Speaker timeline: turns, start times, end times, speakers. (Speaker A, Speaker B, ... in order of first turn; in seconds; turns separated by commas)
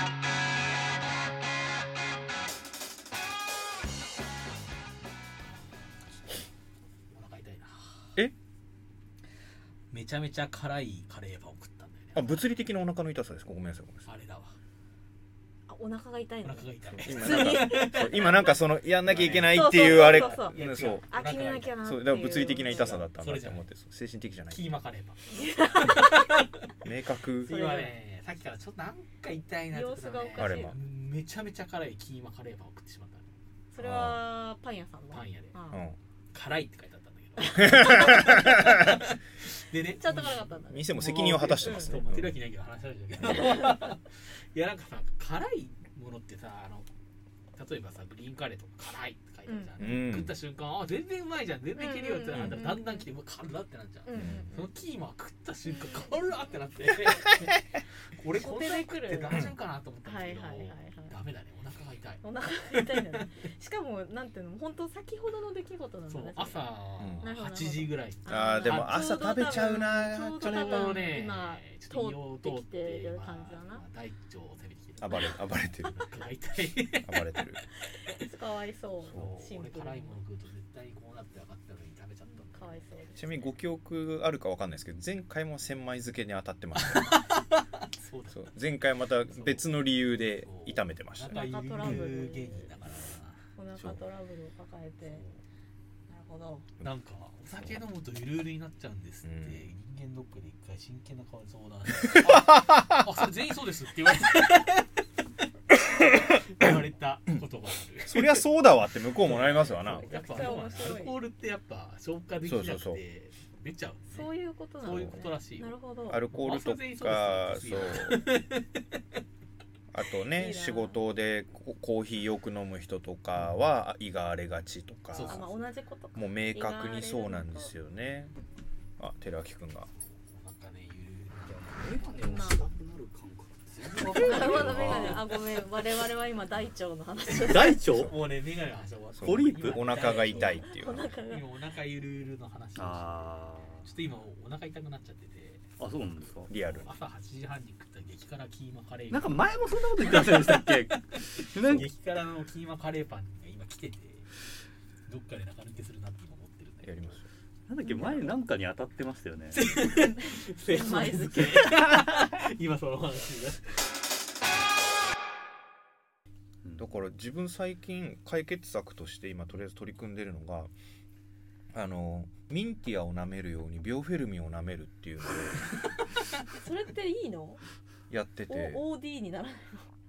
Speaker A: 7.1-7.8, Speaker A: 9.9-12.4, Speaker B: 12.1-14.1, Speaker A: 14.1-14.5, Speaker C: 15.7-18.6, Speaker A: 16.4-18.1, Speaker B: 16.9-21.0, Speaker A: 19.1-21.8, Speaker C: 19.4-23.0, Speaker B: 21.8-24.7, Speaker A: 22.7-23.6, Speaker A: 24.5-25.2, Speaker C: 25.3-26.3, Speaker A: 25.8-26.5, Speaker B: 26.8-27.6, Speaker A: 27.4-33.3, Speaker C: 27.5-27.9, Speaker C: 29.7-30.7, Speaker B: 30.4-30.8, Speaker C: 33.7-35.8, Speaker B: 33.8-34.2, Speaker A: 35.1-35.6, Speaker B: 35.7-36.0, Speaker A: 36.3-46.9, Speaker C: 37.4-38.7, Speaker B: 37.5-38.9, Speaker C: 39.8-42.0, Speaker B: 40.3-42.4, Speaker C: 43.3-43.8, Speaker A: 47.5-57.6, Speaker C: 49.5-50.0, Speaker B: 49.8-50.4, Speaker C: 51.8-53.1, Speaker B: 52.3-52.7, Speaker C: 54.0-54.7, Speaker B: 54.1-54.5, Speaker C: 55.6-56.5, Speaker A: 58.2-63.3, Speaker C: 58.3-59.5, Speaker C: 60.0-61.1, Speaker C: 62.2-73.8, Speaker A: 66.1-69.0, Speaker B: 67.0-67.3, Speaker B: 68.2-70.9, Speaker A: 70.4-77.2, Speaker B: 75.0-75.9, Speaker B: 77.0-77.6, Speaker C: 78.0-80.2, Speaker B: 79.0-79.3, Speaker A: 79.2-82.9, Speaker C: 82.3-83.4, Speaker B: 83.2-87.2, Speaker A: 86.9-88.5, Speaker B: 88.3-92.1, Speaker A: 89.3-89.7, Speaker A: 90.3-93.5, Speaker C: 91.3-92.7, Speaker C: 93.5-95.2, Speaker A: 95.0-95.4, Speaker C: 96.1-96.7, Speaker A: 96.8-105.0, Speaker B: 99.2-99.7, Speaker B: 102.3-103.0, Speaker A: 106.0-108.3, Speaker B: 108.0-111.0, Speaker A: 109.2-115.7, Speaker C: 109.8-111.2, Speaker B: 112.4-113.0, Speaker C: 114.1-116.2, Speaker B: 114.8-115.3, Speaker B: 116.1-118.2, Speaker A: 116.3-118.8, Speaker B: 119.9-125.4, Speaker C: 120.3-121.0, Speaker A: 125.1-125.6, Speaker C: 125.2-127.7, Speaker B: 126.1-128.3, Speaker B: 129.0-129.9, Speaker A: 129.9-132.5, Speaker D: 131.5-135.3, Speaker C: 132.2-132.7, Speaker C: 134.0-137.9, Speaker B: 134.5-135.0, Speaker D: 137.5-138.1, Speaker B: 137.9-138.2, Speaker A: 138.0-140.6, Speaker B: 139.1-141.2, Speaker D: 139.2-140.3, Speaker C: 140.1-141.5, Speaker A: 141.2-143.3, Speaker D: 142.8-143.9, Speaker A: 143.8-145.7, Speaker D: 145.8-146.5, Speaker B: 146.5-146.9, Speaker A: 146.8-151.0, Speaker D: 149.1-151.9, Speaker A: 151.8-154.3, Speaker A: 155.1-157.2, Speaker B: 156.8-157.3, Speaker D: 157.7-159.6, Speaker C: 157.8-158.3, Speaker A: 159.5-163.8, Speaker C: 160.1-161.8, Speaker D: 166.6-167.0, Speaker B: 166.8-170.7, Speaker B: 171.7-175.7, Speaker C: 176.5-177.6, Speaker B: 178.1-178.8, Speaker C: 178.5-179.9